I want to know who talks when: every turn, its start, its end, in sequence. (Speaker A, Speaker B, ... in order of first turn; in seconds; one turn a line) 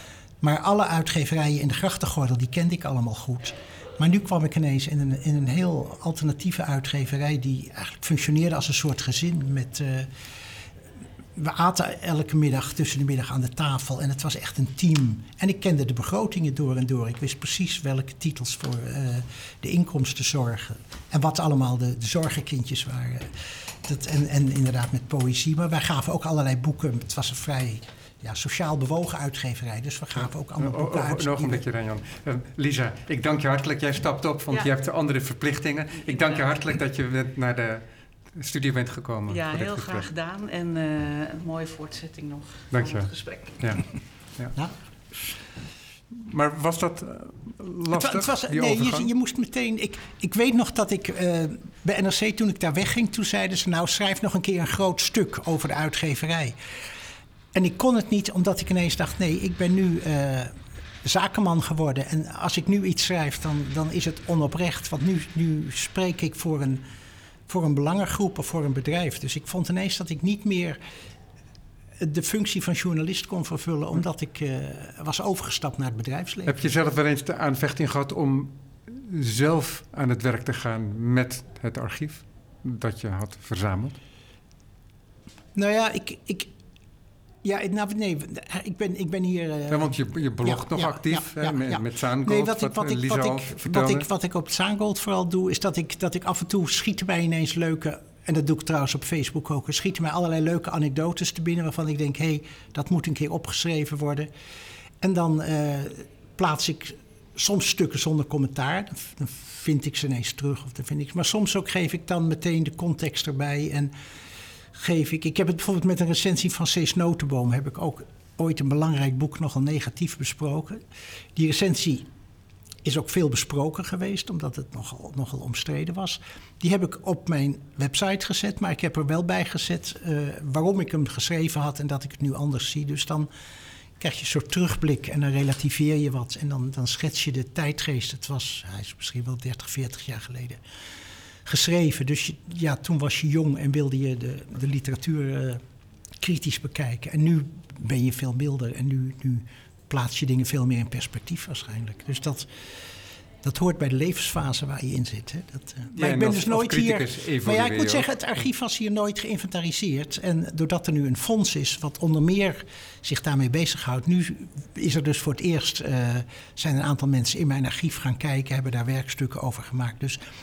Speaker A: 0.4-10.6
Speaker A: 11.4-31.6
Speaker B: 30.6-40.1
Speaker C: 36.1-36.5
Speaker C: 39.3-43.6
Speaker B: 42.7-43.8
Speaker B: 46.1-49.1
Speaker A: 47.9-56.6
Speaker A: 57.5-66.8
Speaker A: 67.5-70.8
Speaker A: 72.0-76.7
Speaker B: 76.5-84.0
Speaker A: 85.5-86.5
Speaker A: 87.4-104.3
Speaker B: 89.7-94.1
Speaker A: 105.0-113.9
Speaker A: 114.7-120.8
Speaker A: 121.3-122.1
Speaker A: 122.8-133.3
Speaker A: 134.0-140.6
Speaker A: 141.5-145.6
Speaker A: 146.2-152.5
Speaker A: 153.4-170.2
Speaker B: 155.9-158.1